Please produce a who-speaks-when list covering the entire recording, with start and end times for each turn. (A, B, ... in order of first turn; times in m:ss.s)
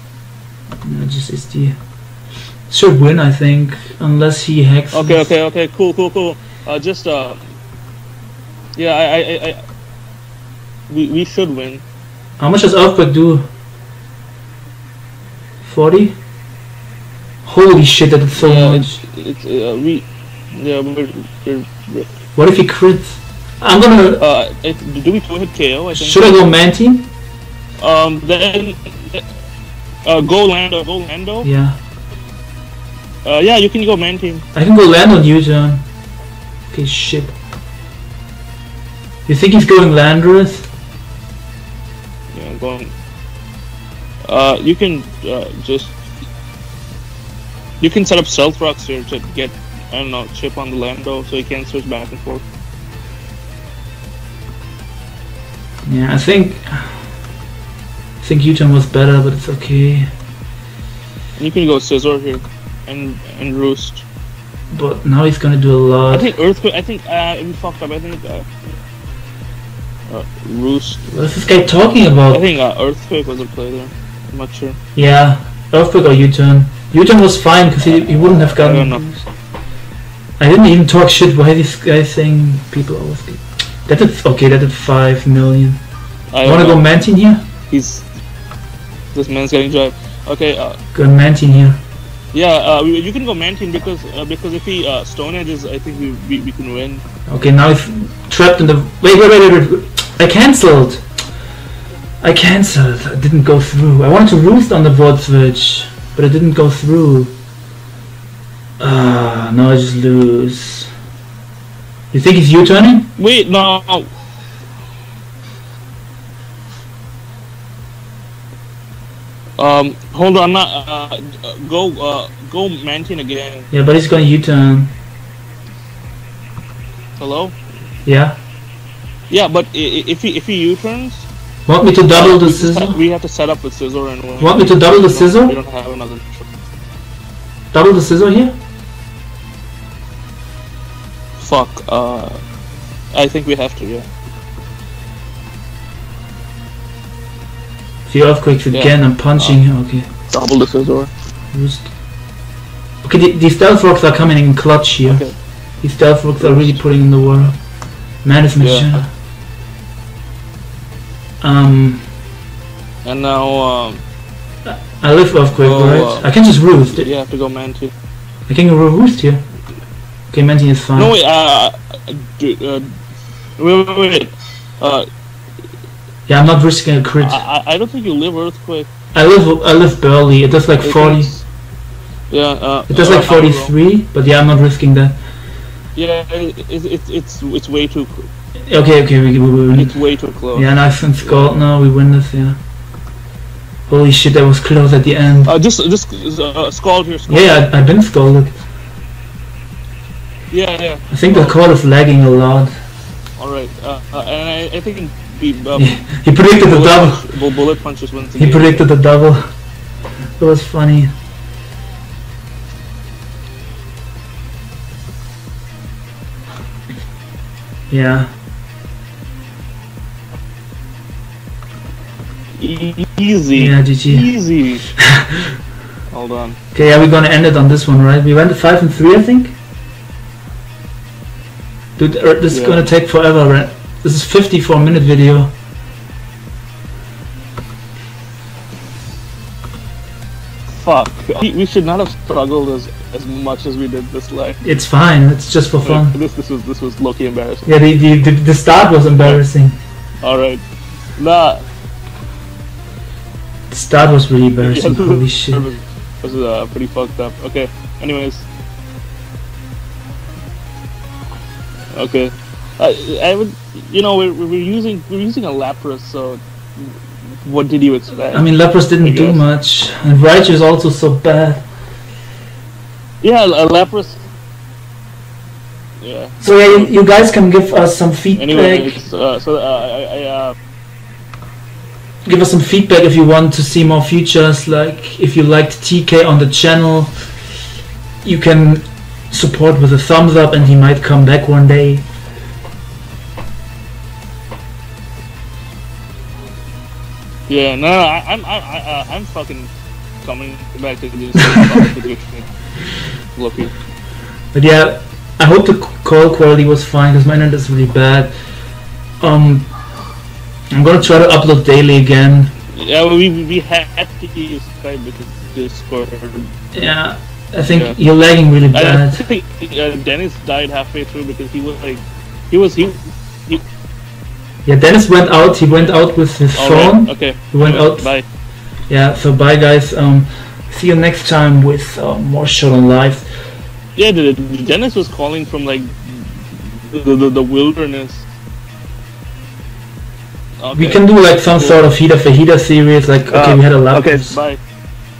0:00.8-0:01.8 A
0:02.7-0:05.3 A
0:04.9-0:07.4 B
0:08.8-0:09.6 B
0:10.9-0:11.8 B
0:12.4-0:13.5 A
0:15.6-0:16.2 A
0:17.4-0:19.0 A
0:18.4-0:22.1 B
0:22.4-0:24.2 A
0:24.2-0:26.5 B
0:25.9-0:27.1 A
0:27.8-0:29.2 B
0:30.0-0:31.5 B
0:31.4-0:31.8 A
0:33.2-0:34.4 B
0:34.5-0:35.8 A
0:36.7-0:37.4 A
0:39.2-0:40.7 A
0:42.3-0:42.9 B
0:44.2-0:46.0 B
0:47.8-0:52.4 B
0:55.8-0:57.1 A
0:58.2-1:00.1 A
1:01.4-1:04.0 B
1:04.7-1:06.3 A
1:06.1-1:08.5 B
1:10.1-1:11.1 B
1:11.1-1:12.4 A
1:12.3-1:14.8 B
1:14.9-1:19.2 A
1:18.4-1:19.0 B
1:20.4-1:25.8 A
1:26.3-1:26.9 B
1:26.4-1:27.5 A
1:27.7-1:28.1 B
1:29.1-1:30.8 B
1:30.9-1:31.8 A
1:32.3-1:37.0 B
1:37.3-1:41.0 A
1:42.2-1:47.3 A
1:48.8-1:50.9 A
1:52.1-1:53.1 A
1:53.2-1:54.1 B
1:59.6-2:03.7 B
2:03.7-2:04.9 A
2:07.2-2:07.5 B
2:08.0-2:08.4 A
2:09.3-2:11.3 B
2:11.6-2:13.0 A
2:12.1-2:16.5 B
2:14.4-2:15.6 A
2:17.7-2:18.6 A
2:21.4-2:22.4 B
2:23.1-2:24.1 B
2:28.0-2:30.0 A
2:28.7-2:29.6 B
2:30.3-2:31.1 B
2:31.5-2:31.9 A
2:33.0-2:35.2 A
2:35.0-2:35.4 B
2:35.8-2:37.6 A
2:36.4-2:36.8 B
2:38.2-2:39.1 A
2:38.6-2:39.0 B
2:41.4-2:42.1 A
2:43.0-2:44.0 B
2:44.6-2:47.1 A
2:45.6-2:46.3 B
2:47.0-2:47.9 B
2:48.5-2:49.4 A
2:50.3-2:51.1 A
2:51.0-2:53.0 B
2:53.6-2:55.1 B
2:56.3-2:57.4 A
2:57.2-2:58.9 B
2:59.1-3:01.3 A
3:00.8-3:01.4 B
3:02.3-3:03.7 B
3:02.9-3:05.2 A
3:05.9-3:08.3 B
3:08.7-3:10.0 A
3:09.7-3:10.7 B
3:10.5-3:12.6 A
3:11.2-3:11.5 B
3:13.9-3:15.5 A
3:15.4-3:17.6 B
3:17.3-3:18.6 A
3:20.5-3:21.6 B
3:21.1-3:22.7 A
3:23.4-3:28.8 B
3:25.8-3:27.2 A
3:28.4-3:29.5 A
3:30.4-3:31.1 A
3:37.9-3:38.3 A
3:42.6-3:44.9 B
3:43.5-3:44.3 A
3:44.9-3:45.6 A
3:46.1-3:46.6 B
3:46.7-3:49.6 A
3:52.0-3:55.5 A
3:52.5-3:52.8 B
4:00.8-4:04.6 B
4:04.6-4:06.2 A
4:05.8-4:07.7 B
4:07.6-4:09.8 A
4:10.2-4:10.6 B
4:11.2-4:11.6 B
4:13.7-4:15.7 A
4:14.6-4:18.4 B
4:21.9-4:28.5 B
4:28.3-4:31.6 A
4:29.0-4:29.4 B
4:33.2-4:34.2 B
4:36.0-4:36.9 B
4:36.4-4:39.0 A
4:38.4-4:40.5 B
4:42.2-4:47.3 A
4:48.2-4:52.0 A
4:57.5-4:59.7 B
5:00.2-5:02.5 B
5:01.4-5:01.8 A
5:03.3-5:03.7 B
5:04.5-5:08.3 A
5:09.2-5:09.7 A
5:10.7-5:12.5 A
5:12.7-5:16.5 B
5:16.7-5:19.2 A
5:17.7-5:18.0 B
5:18.7-5:23.6 B
5:24.6-5:28.1 A
5:26.5-5:28.2 B
5:28.9-5:33.3 A
5:34.0-5:38.2 B
5:40.6-5:41.8 B
5:40.7-5:44.4 A
5:43.3-5:44.6 B